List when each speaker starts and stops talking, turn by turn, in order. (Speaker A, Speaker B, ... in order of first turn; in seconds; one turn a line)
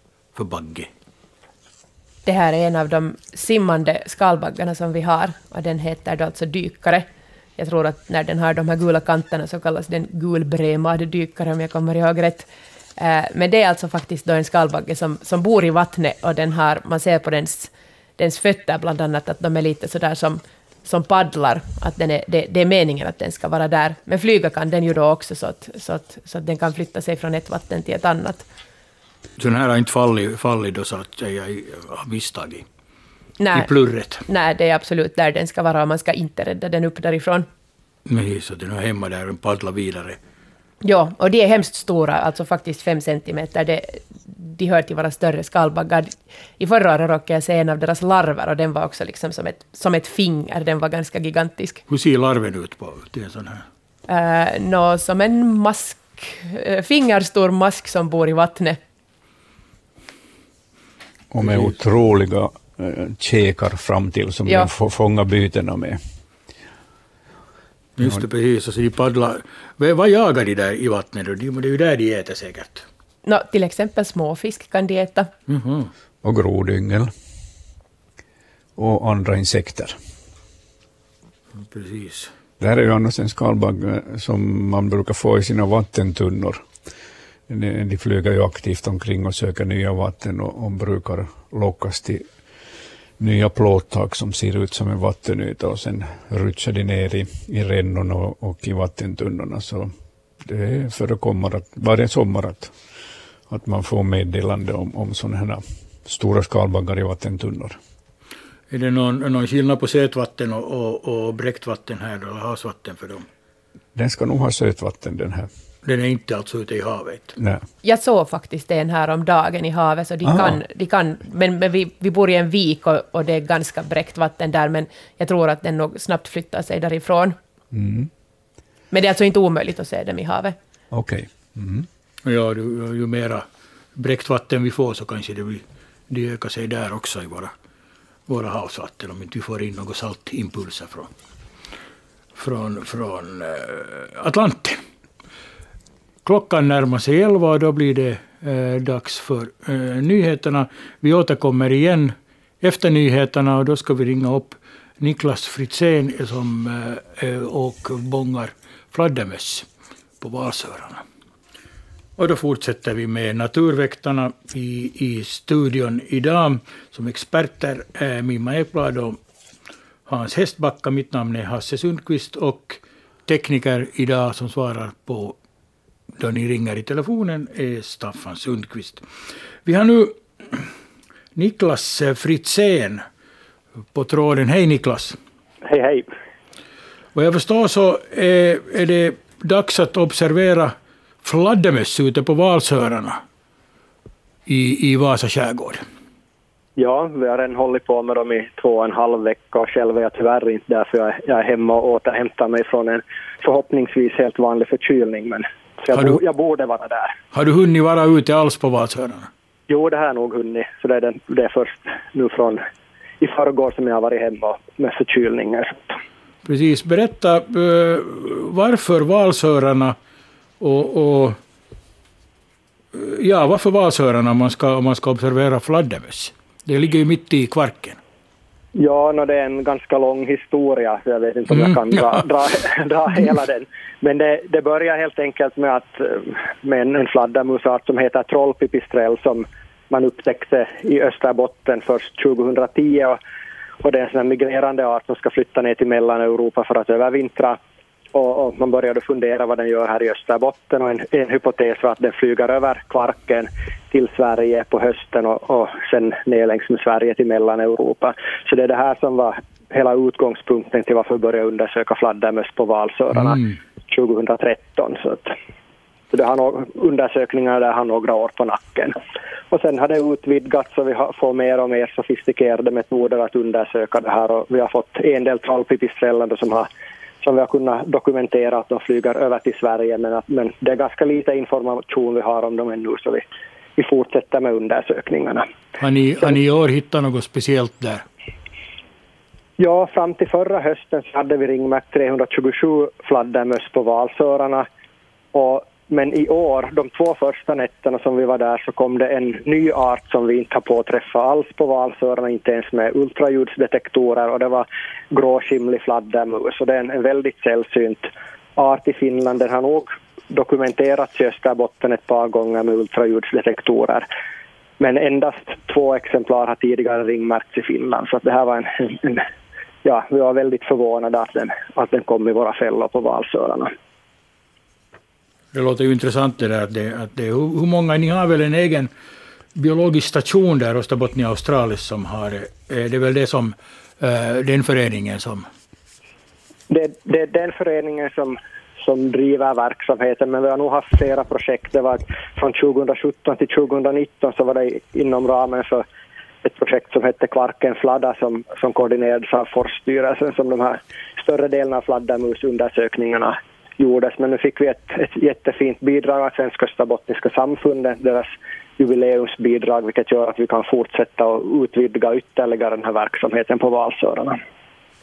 Speaker A: 0.3-0.9
Speaker B: 2.3-28.5
Speaker A: 29.4-32.7
Speaker B: 33.4-33.7
Speaker A: 33.5-34.2
Speaker B: 34.3-37.5
Speaker A: 38.1-40.2
Speaker B: 40.8-51.8
Speaker A: 51.9-53.7
Speaker B: 54.1-58.8
Speaker C: 61.3-66.0
Speaker A: 61.4-61.8
Speaker A: 68.0-72.9
Speaker B: 73.2-75.3
Speaker A: 75.5-75.9
Speaker C: 76.2-77.1
Speaker C: 78.8-80.0
Speaker A: 81.5-82.3
Speaker C: 82.6-86.7
Speaker C: 87.5-92.3
Speaker C: 93.2-102.8
Speaker C: 103.5-107.8
Speaker A: 108.7-113.3
Speaker C: 114.0-115.5
Speaker A: 115.8-117.4
Speaker C: 117.4-117.7
Speaker B: 117.8-127.4
Speaker C: 120.2-120.6
Speaker C: 127.7-128.1
Speaker B: 128.9-130.6
Speaker C: 130.9-131.9
Speaker A: 132.2-137.5
Speaker A: 138.3-141.1
Speaker A: 142.4-144.8
Speaker A: 146.2-159.7
Speaker A: 160.2-161.0
Speaker A: 162.2-169.2
Speaker A: 170.1-175.4
Speaker A: 176.2-179.0
Speaker A: 179.7-180.7
Speaker A: 181.4-183.0
Speaker A: 183.9-185.2
Speaker D: 185.7-186.1
Speaker A: 187.2-193.2
Speaker A: 194.5-195.8
Speaker D: 196.8-207.2
Speaker A: 207.3-209.3
Speaker D: 209.7-212.6
Speaker D: 213.2-216.0
Speaker A: 216.4-220.0
Speaker A: 220.6-221.4
Speaker A: 222.9-228.0
Speaker D: 228.8-243.2
Speaker A: 231.5-232.2
Speaker D: 243.8-247.6
Speaker D: 248.1-265.4
Speaker A: 263.1-263.6
Speaker D: 266.1-269.0
Speaker D: 269.5-276.7
Speaker D: 277.2-283.3
Speaker D: 283.8-285.5
Speaker A: 285.8-288.1
Speaker D: 289.6-294.7
Speaker D: 295.3-314.1
Speaker D: 314.8-319.3
Speaker D: 319.8-323.7
Speaker A: 325.5-328.9
Speaker A: 329.6-335.5
Speaker D: 336.7-345.9
Speaker D: 346.4-364.4